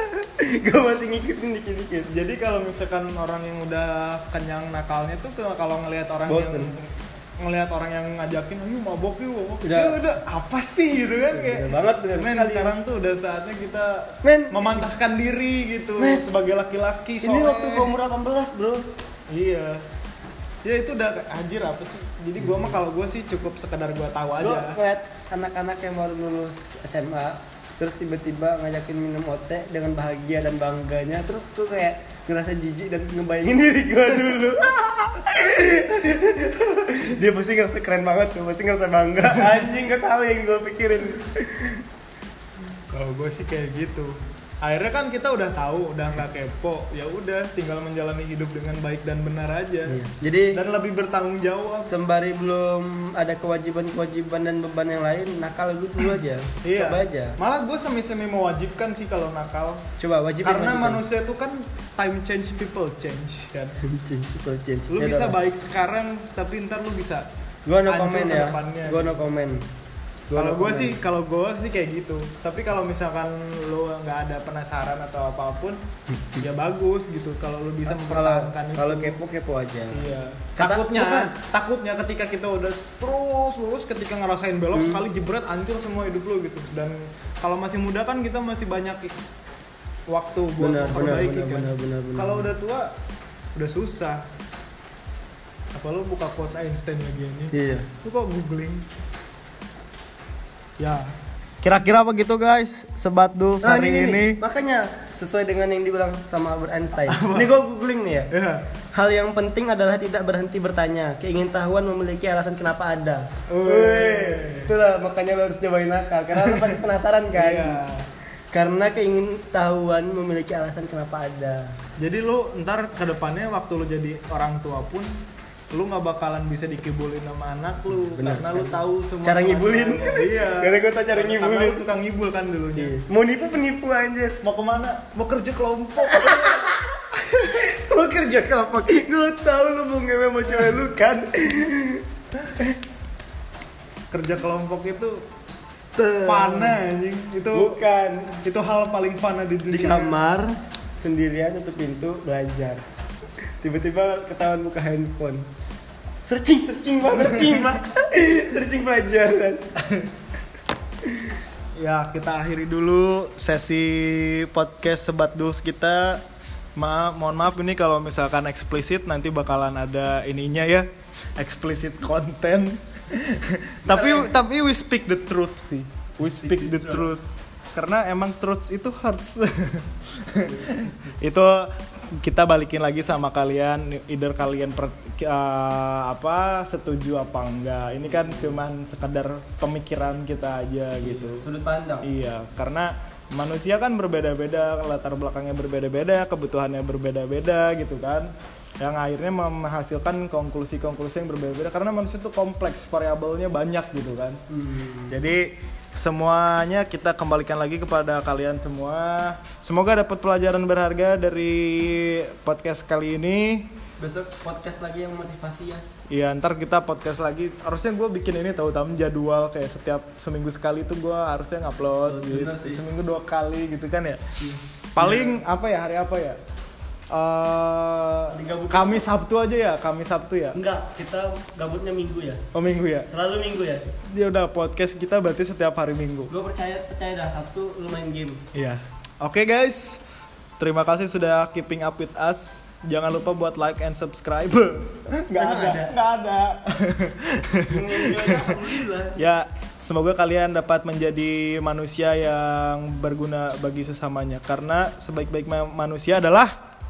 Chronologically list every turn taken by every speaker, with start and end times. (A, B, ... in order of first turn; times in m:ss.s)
0:00.2-0:02.1 A
0:02.1-0:17.9 B
0:06.3-0:06.7 A
0:09.6-0:10.0 A
0:11.3-0:12.7 A
0:14.2-0:14.9 A
0:17.2-0:18.8 A
0:19.3-0:19.8 B
0:20.6-0:24.8 B
0:22.4-0:22.7 A
0:24.4-0:41.8 A
0:42.9-0:50.0 B
0:49.9-0:50.6 A
0:50.5-0:51.9 B
0:51.8-0:57.4 A
0:56.6-0:59.8 B
1:00.0-1:01.0 A
1:00.4-1:03.8 B
1:03.8-1:05.4 A
1:04.9-1:07.3 B
1:07.7-1:09.6 A
1:07.8-1:09.2 B
1:10.3-1:11.0 A
1:10.3-1:15.8 B
1:16.4-1:19.2 B
1:17.9-1:20.0 A
1:19.9-1:29.1 B
1:20.6-1:21.3 A
1:24.7-1:25.0 A
1:30.1-1:32.9 B
1:30.6-1:32.5 A
1:33.5-1:34.2 B
1:35.7-1:38.8 B
1:37.5-1:37.9 A
1:40.8-1:44.4 B
1:43.6-1:48.3 A
1:47.1-1:47.5 B
1:48.3-1:48.7 B
1:48.9-1:57.8 A
1:53.5-1:54.7 B
1:56.4-1:56.8 B
1:57.3-1:58.0 B
1:58.5-2:01.8 A
2:02.0-2:05.1 B
2:05.7-2:12.9 B
2:08.0-2:11.8 A
2:12.8-2:14.4 A
2:14.4-2:16.8 B
2:16.0-2:22.0 A
2:24.1-2:25.2 B
2:26.0-2:26.8 A
2:26.2-2:30.2 B
2:27.5-2:28.4 A
2:29.7-2:32.8 A
2:33.6-2:35.4 A
2:36.2-2:39.6 A
2:37.2-2:37.7 B
2:39.8-2:40.1 B
2:41.0-2:41.3 A
2:41.8-2:46.2 B
2:46.8-3:11.4 B
2:53.8-2:54.3 A
2:56.2-2:57.1 A
3:08.1-3:08.5 A
3:11.0-3:12.1 A
3:12.0-3:24.4 B
3:24.5-3:25.2 A
3:25.1-3:33.7 B
3:34.0-3:35.9 A
3:36.1-3:44.2 B
3:42.0-3:42.8 A
3:44.4-3:45.4 A
3:44.9-3:46.4 B
3:47.1-3:50.6 B
3:48.3-3:49.0 A
3:50.5-3:52.5 A
3:52.5-3:53.1 B
3:53.1-3:53.9 A
3:54.0-3:56.3 B
3:56.3-3:58.4 A
3:58.5-4:00.0 B
4:00.6-4:08.6 B
4:05.3-4:05.9 A
4:07.7-4:09.2 A
4:09.2-4:16.5 B